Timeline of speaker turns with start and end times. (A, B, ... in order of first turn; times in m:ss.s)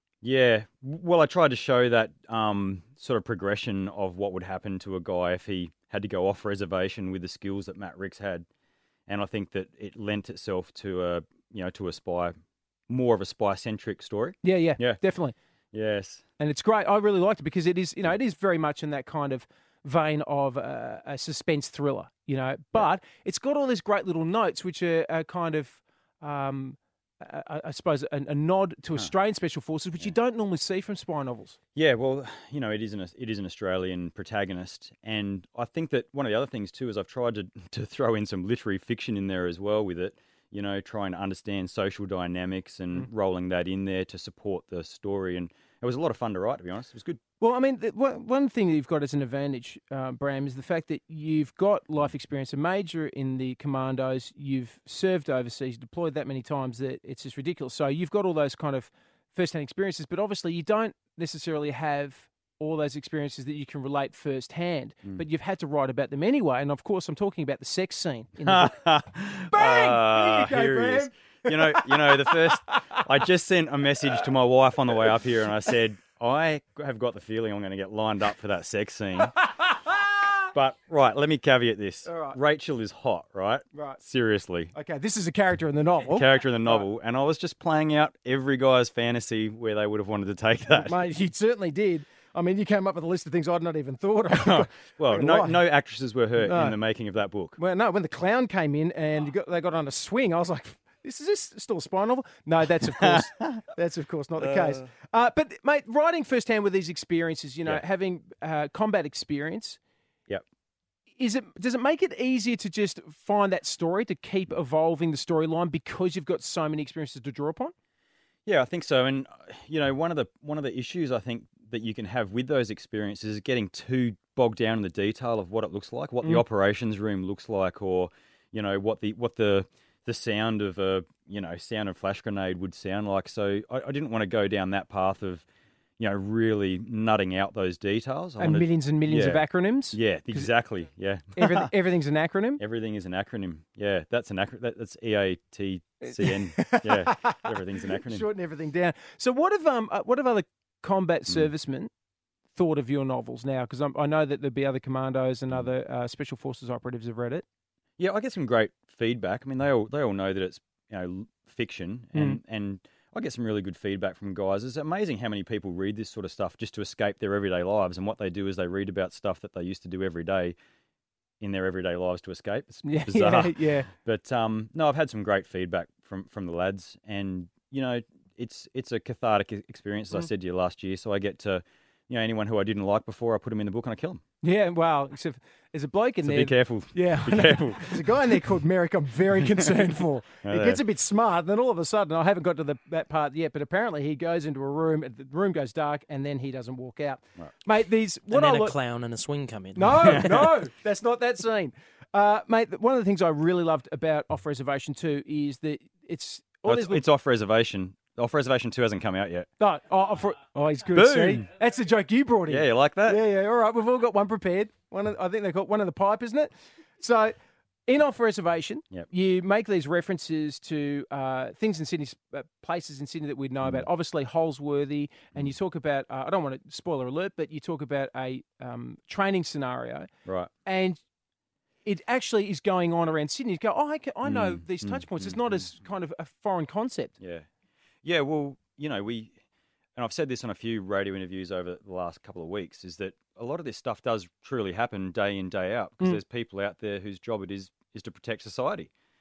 0:00.2-0:08.4 A
0:09.1-0:12.3 A
0:12.9-0:15.0 A
0:14.4-0:15.4 B
0:15.7-0:16.2 A
0:16.4-0:31.6 B
0:31.7-0:47.2 A
0:47.4-1:08.8 B
1:08.4-1:19.4 A
1:09.5-1:13.0 B
1:19.3-1:20.3 B
1:20.5-1:24.7 A
1:22.0-1:22.4 B
1:23.7-1:24.0 B
1:24.7-1:26.8 B
1:26.0-1:31.0 A
1:30.8-1:35.6 B
1:34.3-1:37.6 A
1:36.4-1:36.8 B
1:37.6-1:49.8 B
1:42.8-1:43.6 A
1:44.4-1:44.8 A
1:51.2-1:57.7 B
1:58.4-2:15.4 A
2:16.0-2:21.7 A
2:18.4-2:20.5 B
2:21.4-2:22.6 B
2:22.6-2:28.3 A
2:26.0-2:31.9 B
2:32.5-2:37.4 B
2:38.0-2:50.6 A
2:51.4-3:04.2 A
2:52.8-2:53.9 B
3:04.4-3:18.8 B
3:06.2-3:08.4 A
3:09.4-3:09.8 A
3:10.4-3:10.8 A
3:18.3-3:20.5 C
3:19.8-3:27.0 B
3:26.6-3:29.5 A
3:29.6-3:37.3 B
3:30.9-3:31.4 A
3:32.5-3:33.2 A
3:37.8-3:50.1 B
3:50.2-3:50.5 A
3:50.6-3:51.0 B
3:51.8-3:57.1 B
3:54.2-3:55.6 A
3:57.2-3:57.4 A
3:58.0-3:59.4 A
4:00.0-4:08.9 A